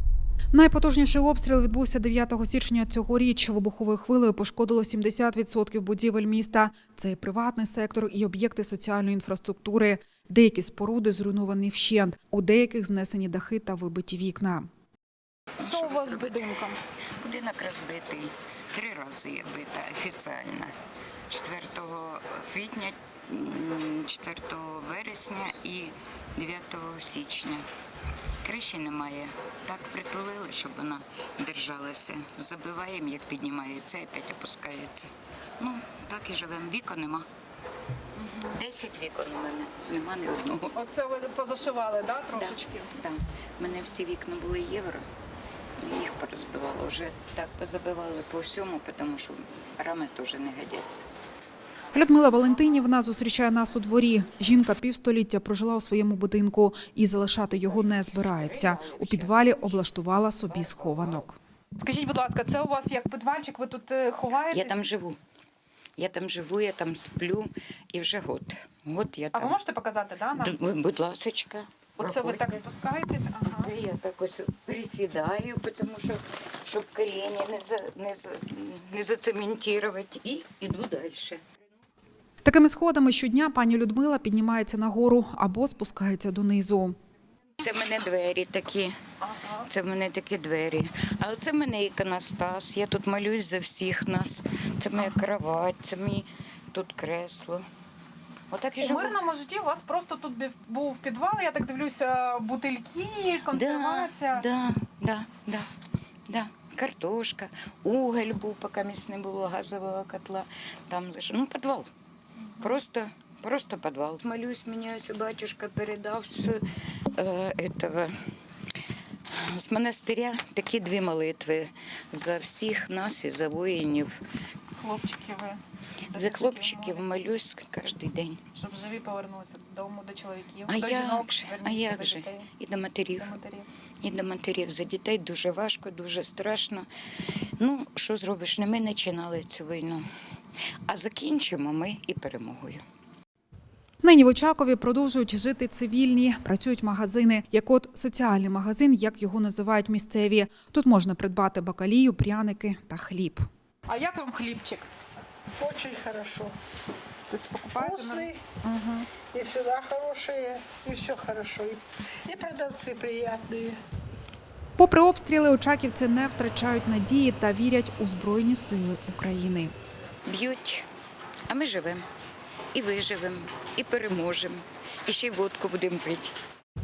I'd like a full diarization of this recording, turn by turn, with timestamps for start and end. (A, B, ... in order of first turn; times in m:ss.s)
0:00.5-0:14.7 A
0:15.6-0:16.5 B
0:15.6-0:16.8 A
0:17.2-0:20.7 B
0:21.3-0:27.6 B
0:28.4-0:37.2 B
0:38.4-0:40.7 B
0:40.7-0:42.8 A
0:42.3-0:45.0 B
0:45.8-0:51.0 B
0:51.9-1:04.7 A
0:57.6-1:01.2 B
1:04.5-1:05.2 B
1:06.0-1:09.6 B
1:09.3-1:10.5 A
1:10.3-1:12.6 B
1:12.0-1:13.7 A
1:13.4-1:21.4 B
1:22.4-1:27.0 A
1:27.6-1:28.9 B
1:29.6-1:37.6 B
1:38.5-1:39.2 B
1:38.8-1:44.4 A
1:43.5-1:45.7 B
1:46.3-1:51.9 B
1:52.6-1:56.6 B
1:57.1-1:58.1 B
1:59.3-2:04.2 B
2:04.8-2:05.6 A
2:06.1-2:07.2 A
2:06.1-2:08.4 B
2:08.5-2:12.4 A
2:10.7-2:13.3 B
2:13.2-2:13.6 A
2:14.0-2:16.9 B
2:17.6-2:20.0 B
2:20.9-2:22.8 B
2:24.0-2:34.8 A
2:35.6-2:36.5 C
2:37.3-2:39.1 A
2:37.8-2:38.4 C
2:39.3-2:43.8 C
2:44.8-2:49.7 A
2:50.2-2:50.8 B
2:51.5-2:52.0 B
2:52.7-2:56.3 B